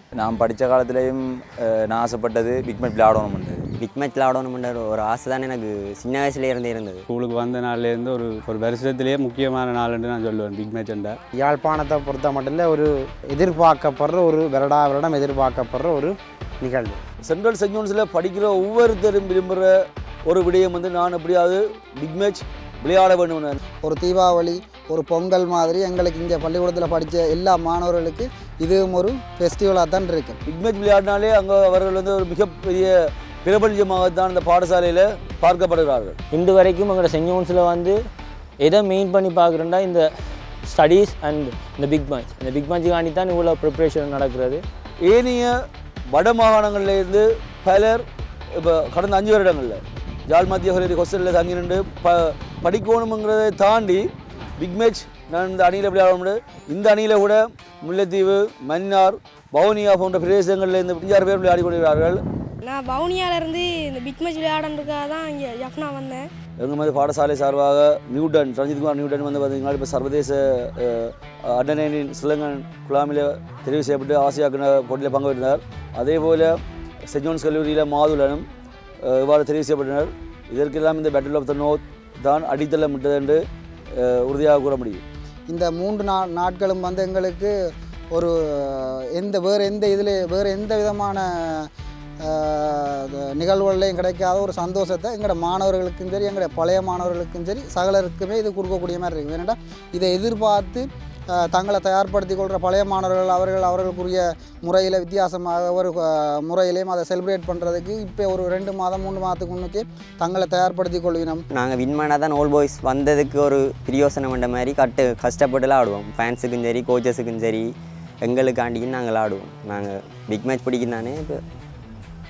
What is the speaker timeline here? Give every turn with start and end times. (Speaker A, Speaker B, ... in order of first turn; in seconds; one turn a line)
Speaker A: 0.2-3.7
Speaker B: 3.7-7.0
Speaker C: 7.1-11.2
Speaker D: 11.3-17.0
Speaker E: 17.2-19.7
Speaker E: 20.3-23.6
Speaker F: 23.8-30.4
Speaker E: 30.4-36.2
Speaker G: 36.3-38.0
Speaker G: 38.6-40.1
Speaker G: 40.6-44.6
Speaker E: 45.0-45.5
Speaker E: 46.1-48.0
Speaker E: 48.6-54.0
Speaker E: 54.6-62.2
Speaker H: 62.6-66.2
Speaker E: 66.6-76.5
Speaker E: 77.1-78.4
Speaker E: 79.0-83.4
Speaker E: 84.0-85.0
Speaker F: 85.5-87.5
Speaker F: 88.1-91.7
Speaker F: 92.2-111.4
Speaker B: 111.5-121.4